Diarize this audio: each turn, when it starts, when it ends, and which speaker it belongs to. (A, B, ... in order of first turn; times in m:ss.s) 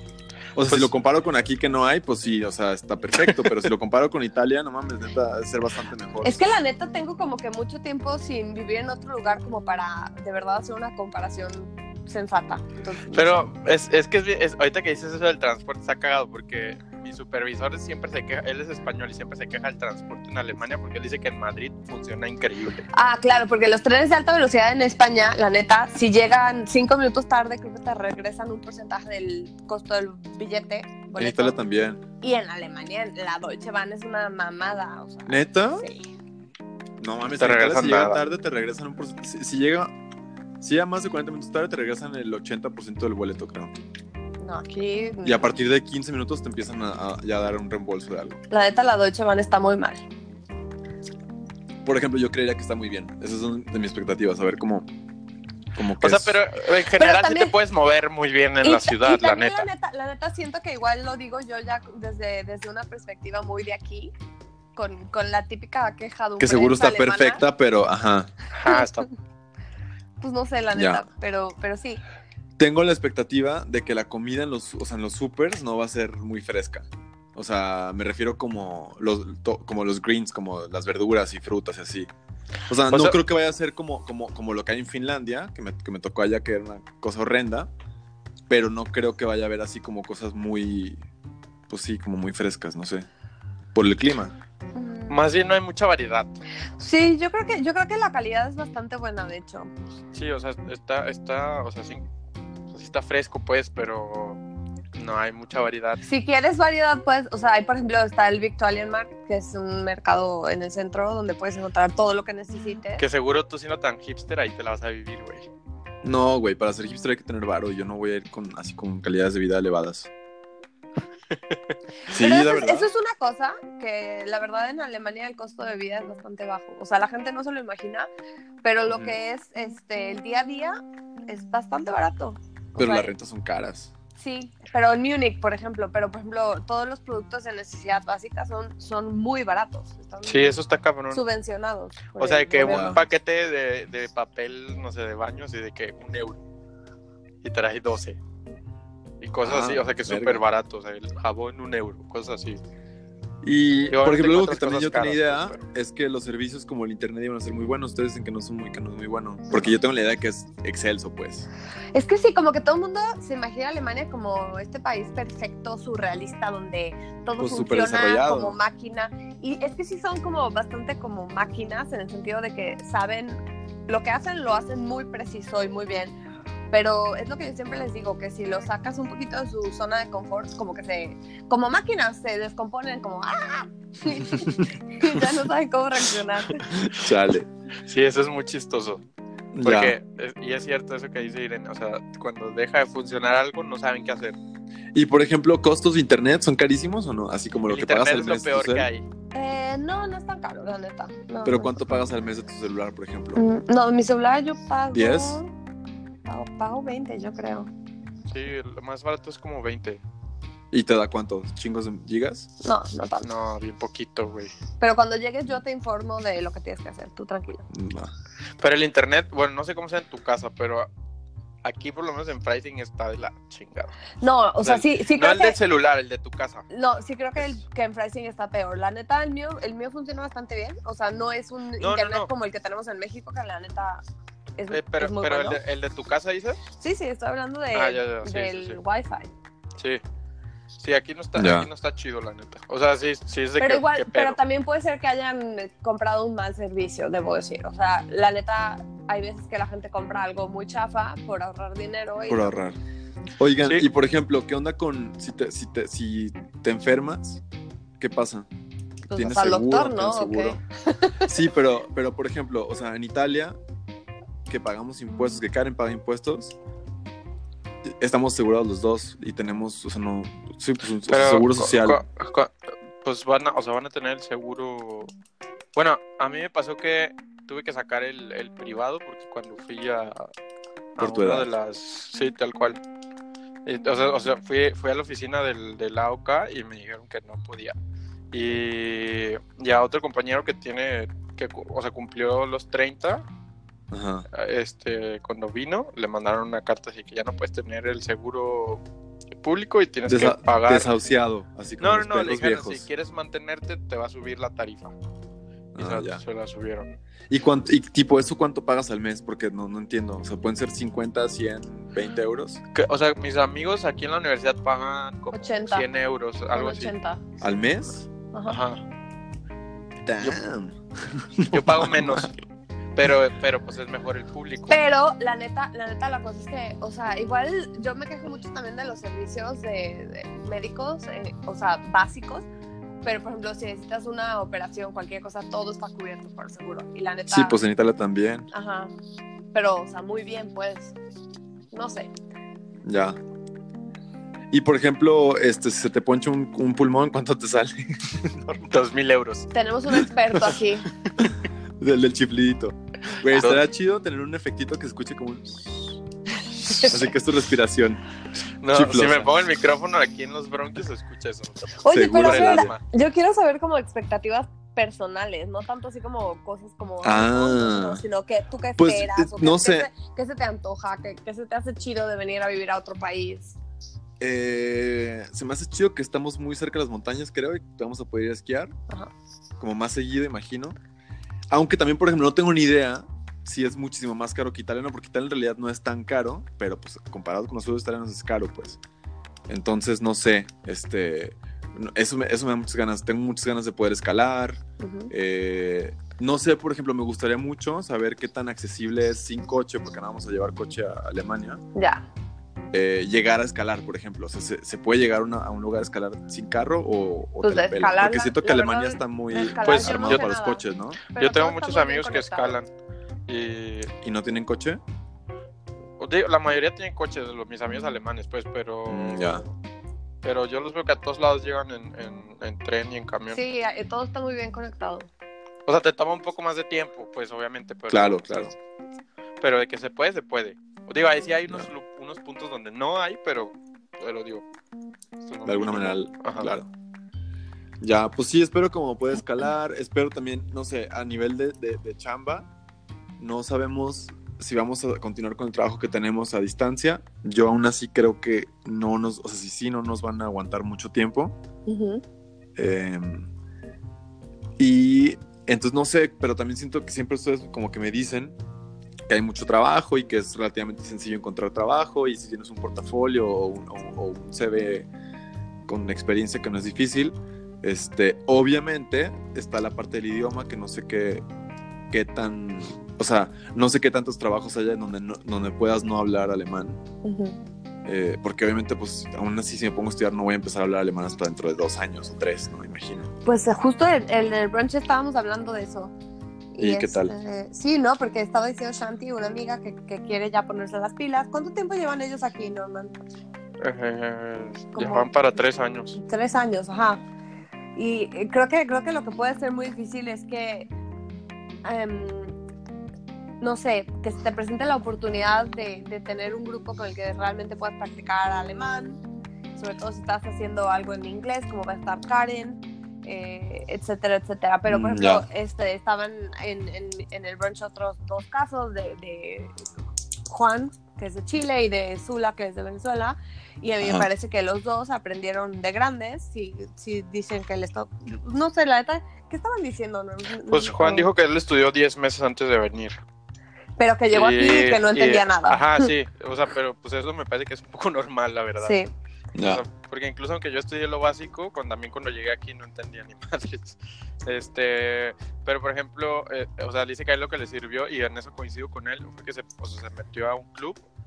0:00.5-0:06.4 A
0:03.2-0:03.6 B
0:06.2-0:13.4 C
0:13.1-0:22.8 B
0:22.9-0:31.6 C
0:31.2-0:32.0 A
0:32.2-0:36.1 C
0:35.3-0:35.8 A
0:37.0-0:39.9 A
0:37.4-0:38.2 B
0:40.6-0:43.8 A
0:44.4-0:45.4 C
0:45.2-0:48.4 A
0:48.5-0:50.0 C
0:51.8-0:54.9 A
0:55.7-0:56.4 A
0:56.0-0:59.7 B
0:57.0-0:57.5 C
0:58.6-1:04.1 C
1:04.8-1:07.4 C
1:06.4-1:08.3 A
1:08.5-1:09.1 B
1:08.7-1:09.0 C
1:10.2-1:12.0 C
1:10.7-1:11.0 A
1:12.6-1:22.1 A
1:22.7-1:27.7 A
1:22.9-1:23.2 B
1:28.5-1:31.0 A
1:31.7-1:33.1 A
1:33.7-1:34.3 A
1:34.7-1:35.2 C
1:35.1-1:36.4 B
1:36.8-1:39.7 C
1:40.1-1:42.0 B
1:42.7-1:44.4 B
1:44.9-1:46.0 B
1:46.0-1:53.0 C
1:53.0-1:55.5 B
1:56.0-2:00.1 A
2:01.3-2:01.7 B
2:02.1-2:02.9 A
2:02.2-2:08.1 C
2:08.6-2:10.8 C
2:08.9-2:09.2 A
2:11.3-2:13.1 C
2:12.8-2:13.9 A
2:14.2-2:23.0 C
2:20.2-2:21.2 B
2:22.2-2:26.4 B
2:22.6-2:23.0 A
2:27.4-2:28.2 B
2:29.2-2:32.6 B
2:29.4-2:30.4 A
2:33.4-2:41.5 A
2:33.9-2:35.6 B
2:41.9-2:56.1 C
2:47.4-2:48.6 A
2:56.7-3:06.6 C
3:06.7-3:07.5 A
3:07.8-3:09.0 B
3:09.5-3:10.0 A
3:09.6-3:14.4 B
3:14.9-3:18.9 A
3:17.7-3:19.0 B
3:19.3-3:22.0 C
3:21.4-3:23.4 A
3:23.3-3:25.5 C
3:24.9-3:25.4 A
3:26.3-3:27.7 C
3:28.3-3:30.0 B
3:30.7-3:32.5 A
3:32.6-3:33.3 C
3:33.2-3:34.5 B
3:34.8-3:37.6 C
3:37.7-3:38.1 A
3:38.6-3:40.9 B
3:41.6-3:43.9 B
3:44.2-3:45.6 C
3:44.6-3:46.6 B
3:46.7-3:54.0 C
3:51.8-3:52.3 B
3:54.6-3:55.6 C
3:54.7-3:56.6 B
3:56.8-3:59.3 C
3:57.7-3:58.8 B
4:00.8-4:04.4 B
4:01.3-4:01.7 A
4:03.6-4:12.6 C
4:12.3-4:12.8 A
4:13.4-4:17.4 A
4:18.0-4:18.5 A
4:19.1-4:21.4 C
4:19.1-4:20.6 A
4:21.2-4:23.6 A
4:24.5-4:26.6 A
4:27.8-4:32.0 A
4:31.1-4:35.1 B
4:35.7-4:40.3 B
4:41.0-4:42.8 B
4:41.0-4:41.5 A
4:43.6-4:47.8 B
4:48.3-4:53.2 B
4:53.9-4:54.2 A
4:54.3-4:58.8 B
4:59.4-5:00.9 B
5:00.1-5:02.8 A
5:01.8-5:04.9 B
5:05.7-5:06.2 A
5:05.8-5:06.9 B
5:07.3-5:12.6 A
5:12.7-5:16.9 B
5:15.3-5:15.9 C
5:16.5-5:17.2 C
5:17.4-5:18.1 A
5:18.3-5:18.6 C
5:18.5-5:18.8 B
5:20.0-5:22.3 A
5:21.5-5:22.3 B
5:22.9-5:24.8 B
5:24.7-5:32.4 C
5:33.0-5:37.6 C
5:37.3-5:38.5 A
5:38.5-5:38.9 C
5:39.5-5:40.9 C
5:41.7-5:42.1 C
5:42.8-5:43.2 A
5:44.5-5:48.6 A
5:48.6-5:49.5 B
5:49.5-5:50.9 C
5:51.2-5:56.0 A
5:53.3-5:53.6 B
5:56.8-5:58.0 A
5:58.6-6:02.8 B
5:58.7-5:59.3 A
6:01.8-6:13.6 C
6:01.9-6:02.7 A
6:07.0-6:08.0 A
6:08.8-6:09.9 A
6:14.2-6:18.7 A
6:19.6-6:20.8 A
6:21.5-6:28.8 A
6:29.5-6:41.6 A
6:34.8-6:35.1 C
6:41.7-6:42.1 C
6:42.7-6:51.0 A
6:47.4-6:52.6 C
6:49.6-6:50.3 B
6:51.2-6:52.7 B
6:53.3-6:53.9 B
6:54.0-6:54.8 A
6:56.0-6:59.5 B
6:58.9-6:59.4 A
7:00.2-7:03.4 B
7:03.3-7:05.1 C
7:05.6-7:08.5 B
7:07.9-7:08.5 A
7:09.4-7:14.4 B
7:15.2-7:16.6 B
7:15.4-7:16.7 A
7:17.8-7:22.5 A
7:23.2-7:31.4 A
7:31.7-7:32.0 C
7:32.6-7:33.3 A
7:34.6-7:38.4 A
7:39.1-7:44.9 A
7:45.7-7:51.2 A
7:51.9-7:56.8 A
7:57.0-7:57.4 C
7:57.8-8:03.1 A
8:03.2-8:05.9 C
8:06.5-8:13.0 C
8:06.6-8:07.1 A
8:13.6-8:16.0 B
8:14.7-8:15.1 C
8:15.9-8:17.0 C
8:17.8-8:20.7 C
8:21.6-8:22.3 C
8:23.4-8:29.0 C
8:29.6-8:39.5 C
8:34.7-8:35.2 A
8:40.3-8:51.1 C
8:43.8-8:44.1 A
8:50.5-8:53.0 B
8:53.8-8:55.9 C
8:54.1-8:58.8 B
8:58.6-8:58.9 C
8:59.3-8:59.6 A
8:59.4-9:10.8 B